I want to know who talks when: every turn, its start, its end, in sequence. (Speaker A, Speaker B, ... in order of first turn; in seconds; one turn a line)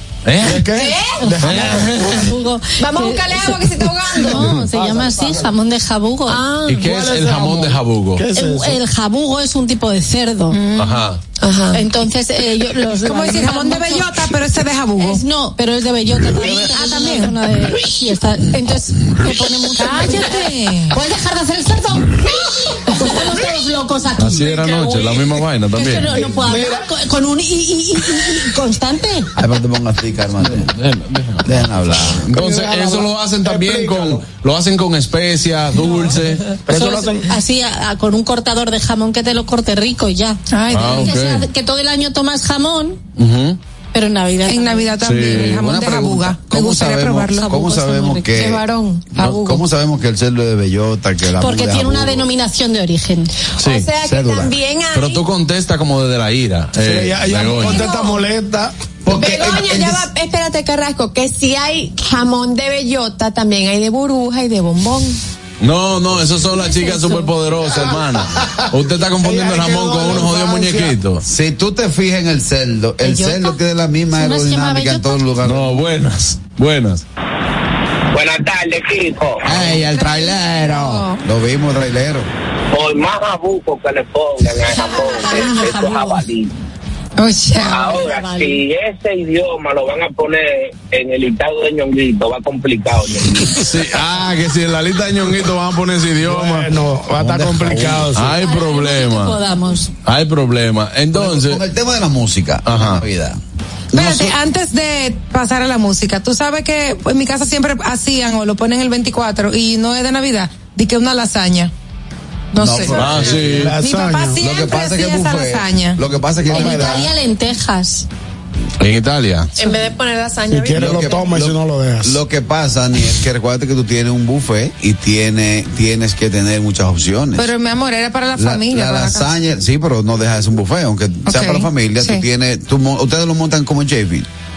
Speaker A: 0.2-0.7
Speaker B: 0.4-2.1
Speaker C: 0.7-1.6
Speaker A: 1.4-2.3
Speaker D: 2.1-6.8
Speaker C: 2.8-4.7
Speaker A: 6.7-8.2
Speaker B: 6.8-8.8
Speaker D: 8.3-10.6
Speaker E: 10.5-11.0
Speaker A: 10.8-11.2
Speaker C: 11.4-11.9
Speaker D: 11.7-14.2
Speaker E: 13.0-15.2
Speaker D: 15.0-29.3
Speaker E: 16.4-17.3
Speaker E: 19.8-20.9
Speaker A: 24.2-26.2
Speaker B: 26.3-26.6
Speaker F: 29.4-30.7
Speaker A: 30.4-36.5
Speaker F: 31.4-32.2
Speaker B: 32.3-34.2
Speaker B: 36.7-37.3
Speaker D: 36.7-43.0
Speaker E: 40.5-41.1
Speaker A: 40.7-41.5
Speaker A: 43.2-43.6
Speaker D: 43.9-45.0
Speaker E: 44.5-47.5
Speaker A: 45.0-45.6
Speaker F: 45.4-48.6
Speaker D: 47.4-48.6
Speaker F: 49.2-52.3
Speaker D: 51.4-53.3
Speaker A: 53.6-53.9
Speaker C: 53.6-55.2
Speaker F: 54.0-54.5
Speaker A: 54.9-57.9
Speaker B: 56.8-58.7
Speaker E: 57.7-58.1
Speaker F: 59.0-60.1
Speaker C: 59.1-65.2
Speaker A: 65.6-71.2
Speaker B: 69.2-71.0
Speaker F: 71.2-75.8
Speaker D: 73.0-73.5
Speaker D: 74.1-75.2
Speaker A: 75.4-77.0
Speaker G: 78.1-79.4
Speaker A: 79.4-81.1
Speaker E: 79.6-81.2
Speaker F: 81.2-82.3
Speaker G: 82.8-86.5
Speaker D: 84.7-86.3
Speaker E: 87.2-87.9
Speaker D: 87.7-88.6
Speaker G: 87.9-93.3
Speaker A: 93.5-99.4
Speaker B: 96.2-98.4
Speaker D: 98.4-99.9
Speaker A: 100.0-101.6
Speaker F: 101.1-103.4
Speaker A: 102.7-103.0
Speaker F: 103.9-104.3
Speaker E: 103.9-111.7
Speaker E: 112.5-113.1
Speaker F: 112.6-113.7
Speaker A: 112.9-113.7
Speaker B: 113.5-114.4
Speaker E: 113.8-116.0
Speaker F: 114.4-117.1
Speaker D: 116.5-118.1
Speaker A: 118.8-119.5
Speaker C: 119.6-121.4
Speaker B: 120.5-122.2
Speaker F: 120.7-127.5
Speaker E: 127.4-129.3
Speaker F: 128.4-134.3
Speaker E: 131.3-132.2